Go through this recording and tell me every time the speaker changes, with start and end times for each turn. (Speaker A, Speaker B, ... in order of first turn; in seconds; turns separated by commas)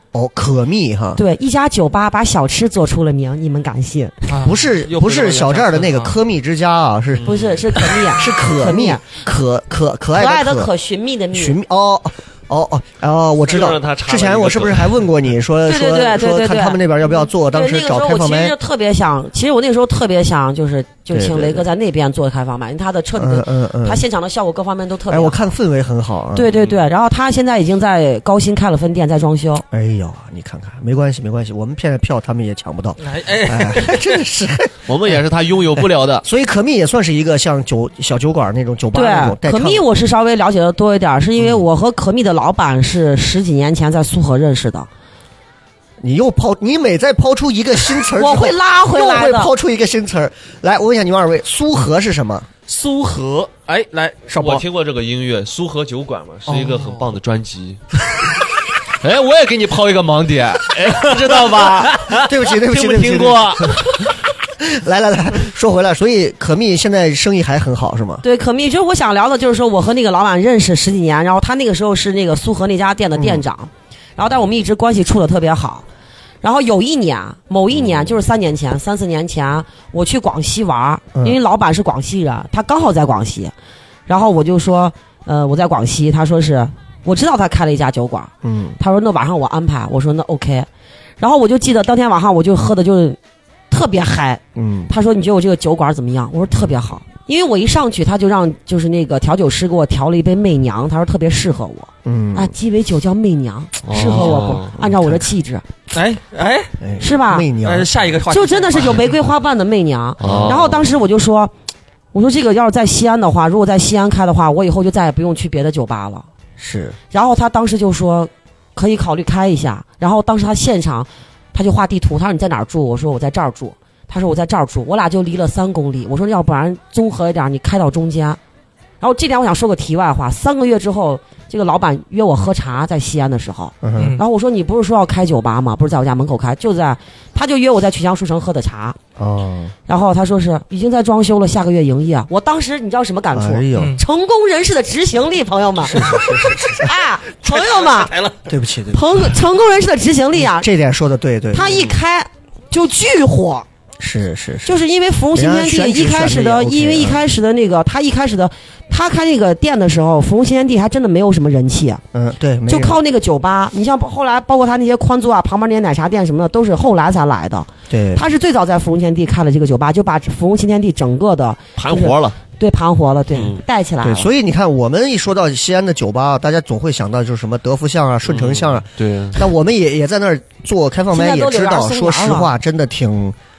Speaker A: 0.1-1.2, Speaker B: 1.2-4.2, Speaker C: 4.3-6.2, Speaker A: 4.4-10.7, Speaker D: 7.2-7.5, Speaker B: 7.2-9.0, Speaker B: 10.2-11.6, Speaker A: 11.3-18.6, Speaker D: 13.4-15.1, Speaker B: 15.7-25.5, Speaker A: 21.1-21.7, Speaker A: 23.1-24.0, Speaker A: 25.1-26.6, Speaker B: 26.3-29.6, Speaker A: 29.7-35.2, Speaker C: 33.0-34.2, Speaker D: 34.9-36.2, Speaker A: 35.8-39.8, Speaker B: 38.9-44.9, Speaker A: 46.0-52.5, Speaker B: 48.1-49.5, Speaker C: 52.7-54.7, Speaker D: 54.4-57.8, Speaker C: 56.5-57.1, Speaker D: 59.0-63.8, Speaker C: 61.2-61.8, Speaker A: 62.1-63.9, Speaker A: 64.6-68.2, Speaker B: 68.2-75.8, Speaker A: 73.2-73.4, Speaker B: 76.4-83.5, Speaker B: 84.1-90.7, Speaker A: 88.4-88.8, Speaker B: 91.2-93.2, Speaker B: 93.7-105.7, Speaker A: 94.5-94.9, Speaker A: 102.0-102.5, Speaker D: 103.8-104.7, Speaker C: 103.9-104.6, Speaker A: 104.8-105.2, Speaker C: 105.9-106.8, Speaker A: 106.8-107.9, Speaker B: 107.0-107.5, Speaker C: 107.6-109.1, Speaker B: 108.3-111.5, Speaker A: 110.2-110.6, Speaker D: 110.2-110.9, Speaker B: 112.1-116.3, Speaker A: 116.6-117.0, Speaker B: 117.1-128.4, Speaker B: 129.0-139.0, Speaker A: 133.8-134.2, Speaker C: 134.0-134.2, Speaker A: 139.2-139.7, Speaker B: 139.9-148.2, Speaker A: 143.3-144.0, Speaker C: 143.7-144.0, Speaker A: 145.9-147.0, Speaker C: 146.0-146.7, Speaker C: 147.4-148.4, Speaker A: 148.5-149.3, Speaker B: 148.9-150.7, Speaker A: 150.4-151.9, Speaker B: 151.5-153.7, Speaker A: 154.0-154.8, Speaker B: 154.7-162.0, Speaker A: 155.3-157.2, Speaker A: 162.1-163.0, Speaker B: 162.7-174.3, Speaker A: 167.9-168.2, Speaker D: 171.8-172.4, Speaker D: 173.3-173.6, Speaker A: 174.0-183.3, Speaker D: 178.3-179.5, Speaker B: 181.1-182.5